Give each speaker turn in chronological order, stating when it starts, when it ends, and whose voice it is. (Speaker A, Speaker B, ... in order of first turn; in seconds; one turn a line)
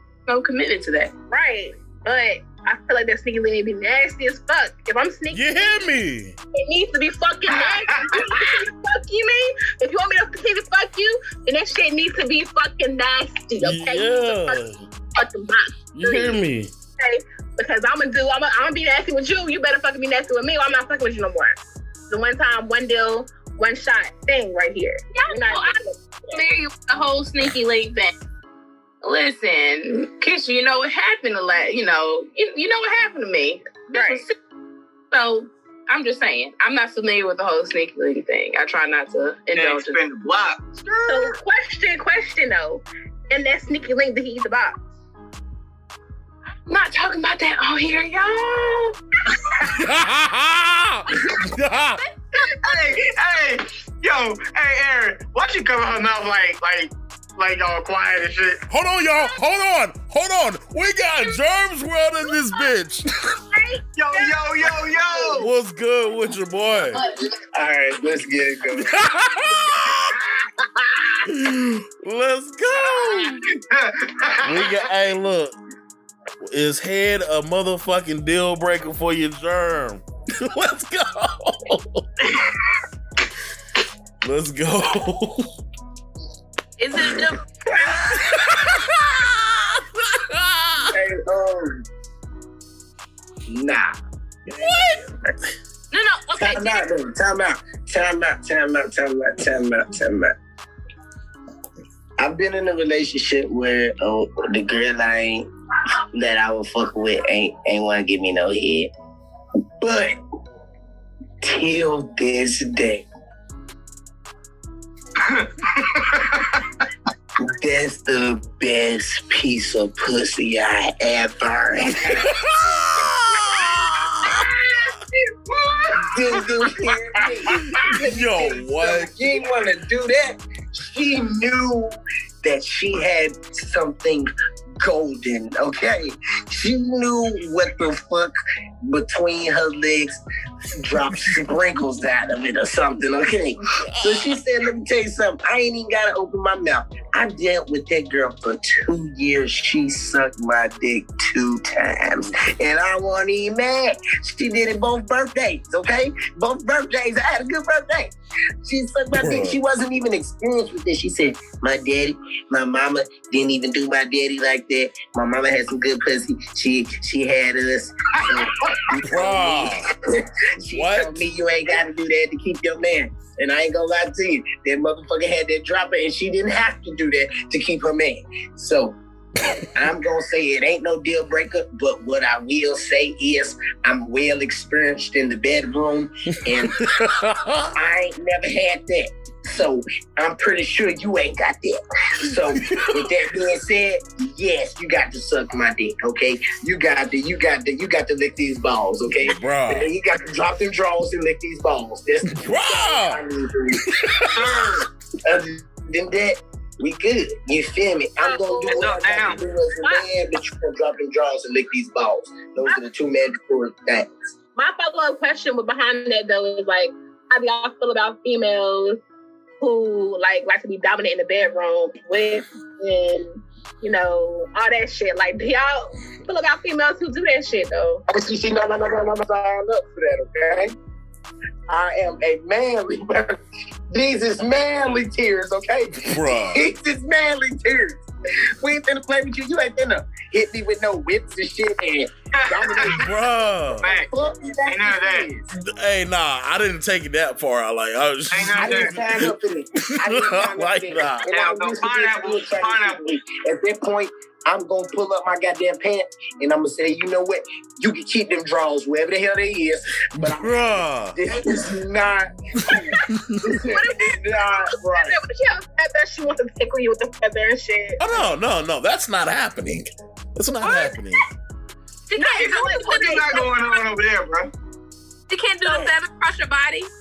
Speaker A: 0.2-1.1
Speaker B: 1.3-5.9
Speaker C: 5.3-6.4
Speaker B: 6.5-14.6
Speaker D: 7.6-8.2
Speaker C: 13.6-14.8
Speaker B: 15.1-16.4
Speaker C: 15.9-16.7
Speaker B: 17.0-21.6
Speaker B: 22.1-26.3
Speaker A: 25.1-28.1
Speaker A: 29.0-34.3
Speaker B: 33.9-34.2
Speaker A: 35.1-40.0
Speaker D: 39.5-41.4
Speaker B: 41.0-44.8
Speaker A: 46.7-49.0
Speaker C: 49.7-52.0
Speaker A: 51.9-52.9
Speaker D: 52.5-58.6
Speaker C: 58.6-63.4
Speaker B: 63.5-65.3
Speaker D: 63.9-65.5
Speaker C: 65.3-67.0
Speaker E: 67.0-68.9
Speaker C: 68.8-70.2
Speaker C: 71.2-73.3
Speaker A: 72.8-73.3
Speaker D: 73.7-74.8
Speaker C: 74.4-75.5
Speaker C: 76.4-82.1
Speaker C: 84.2-85.5
Speaker A: 86.8-87.5
Speaker E: 87.7-88.2
Speaker C: 88.0-91.0
Speaker E: 90.9-91.8
Speaker E: 93.5-93.9
Speaker E: 94.5-95.3
Speaker C: 94.5-95.0
Speaker A: 95.9-96.9
Speaker E: 96.4-100.3
Speaker E: 102.2-105.5
Speaker E: 106.1-108.9
Speaker E: 109.8-110.2
Speaker E: 111.4-113.0
Speaker D: 115.2-116.6
Speaker E: 117.5-122.3
Speaker C: 122.0-124.5
Speaker D: 125.5-126.4
Speaker E: 126.0-140.2
Speaker C: 127.8-129.1
Speaker E: 140.8-179.0
Speaker C: 141.1-141.4
Speaker C: 143.8-144.4
Speaker C: 159.1-159.6
Speaker C: 169.0-169.9
Speaker C: 170.6-171.3
Speaker E: 179.7-186.8
Speaker C: 186.6-187.7
Speaker E: 187.7-203.8
Speaker C: 192.3-193.1
Speaker C: 199.2-199.9
Speaker C: 202.3-203.2
Speaker C: 204.0-204.6
Speaker D: 204.3-204.9
Speaker E: 205.2-214.1
Speaker B: 208.2-208.9
Speaker D: 208.7-209.4
Speaker B: 209.8-210.1
Speaker B: 214.6-219.0
Speaker B: 219.6-228.0
Speaker E: 228.1-230.7
Speaker E: 231.7-238.0
Speaker C: 236.0-236.6
Speaker E: 238.6-243.1
Speaker D: 242.4-243.0
Speaker C: 242.8-243.9
Speaker E: 243.7-245.5
Speaker D: 243.8-244.1
Speaker D: 244.7-245.3
Speaker C: 245.5-249.3
Speaker D: 248.3-248.9
Speaker E: 248.6-265.2
Speaker C: 250.0-251.3
Speaker D: 251.3-253.1
Speaker C: 260.2-261.4
Speaker B: 262.7-262.9
Speaker B: 263.5-268.0
Speaker C: 268.0-271.2
Speaker A: 272.1-273.6
Speaker B: 272.1-273.7
Speaker D: 272.9-274.5
Speaker A: 275.3-276.9